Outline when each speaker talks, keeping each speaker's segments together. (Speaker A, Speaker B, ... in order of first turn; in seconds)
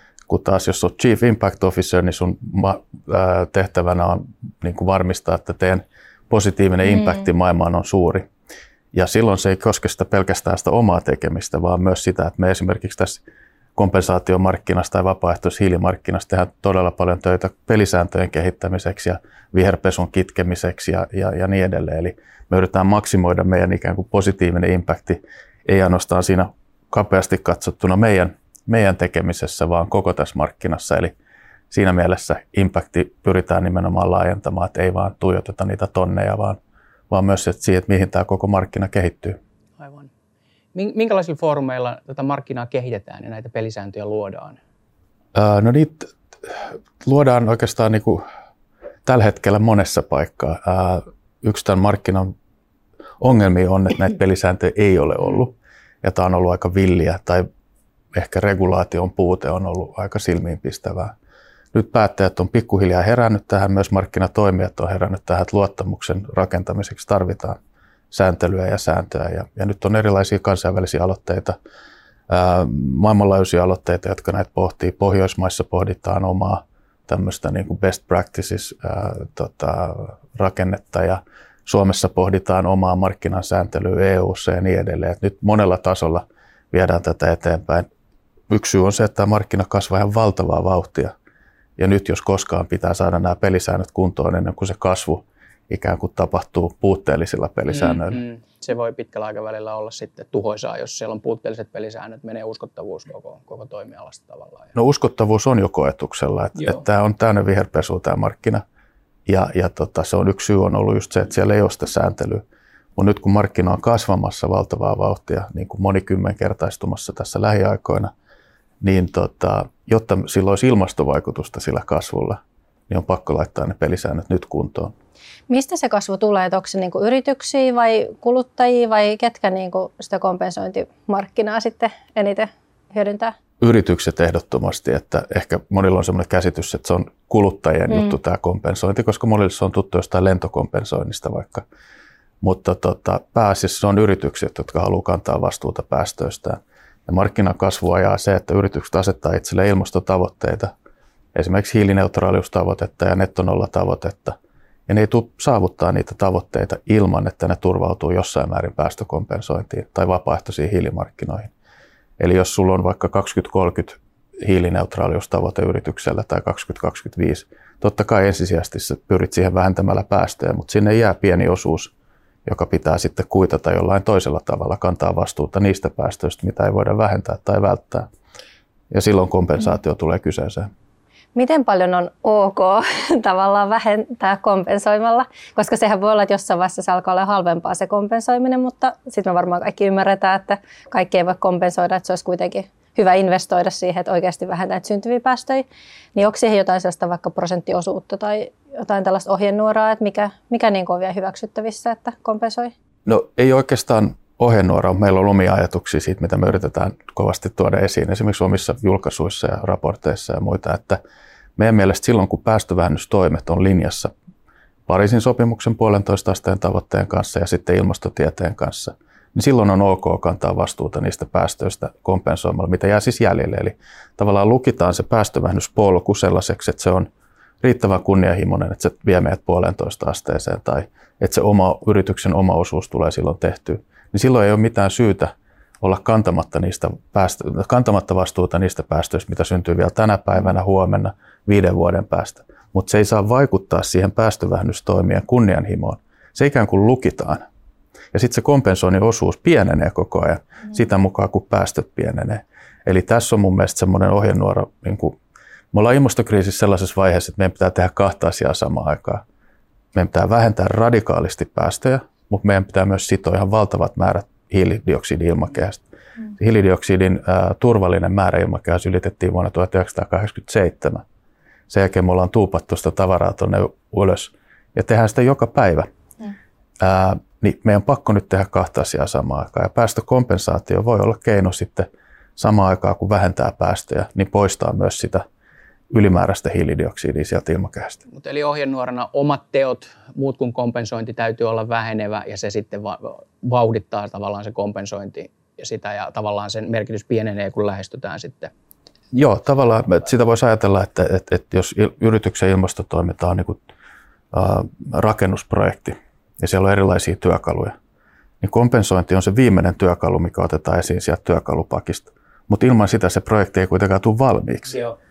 Speaker A: 0.3-8.3, 8.9-13.2, 13.8-31.1, 31.7-36.6, 37.1-39.4, 45.3-48.2, 49.0-52.3, 53.2-57.5, 58.1-61.1, 61.7-67.6, 68.1-71.5, 72.3-87.9, 88.5-91.1, 91.8-98.2, 104.7-108.6, 109.3-112.4, 113.0-118.1, 118.8-124.9, 133.6-141.6, 142.4-150.7, 151.3-154.3, 154.9-161.5, 162.2-171.9, 172.4-178.1, 178.9-180.7, 203.1-211.0, 211.6-214.1, 214.9-227.1, 227.6-247.4, 248.1-255.2, 255.7-259.2, 259.9-265.8, 266.4-271.0, 271.7-275.9, 276.8-285.2, 285.9-288.0, 299.1-303.6, 304.3-307.7, 308.4-314.8
Speaker B: 39.8-40.1, 40.7-44.6, 97.7-104.7, 288.1-298.5, 314.7-314.9
Speaker C: 125.5-133.3, 181.3-202.7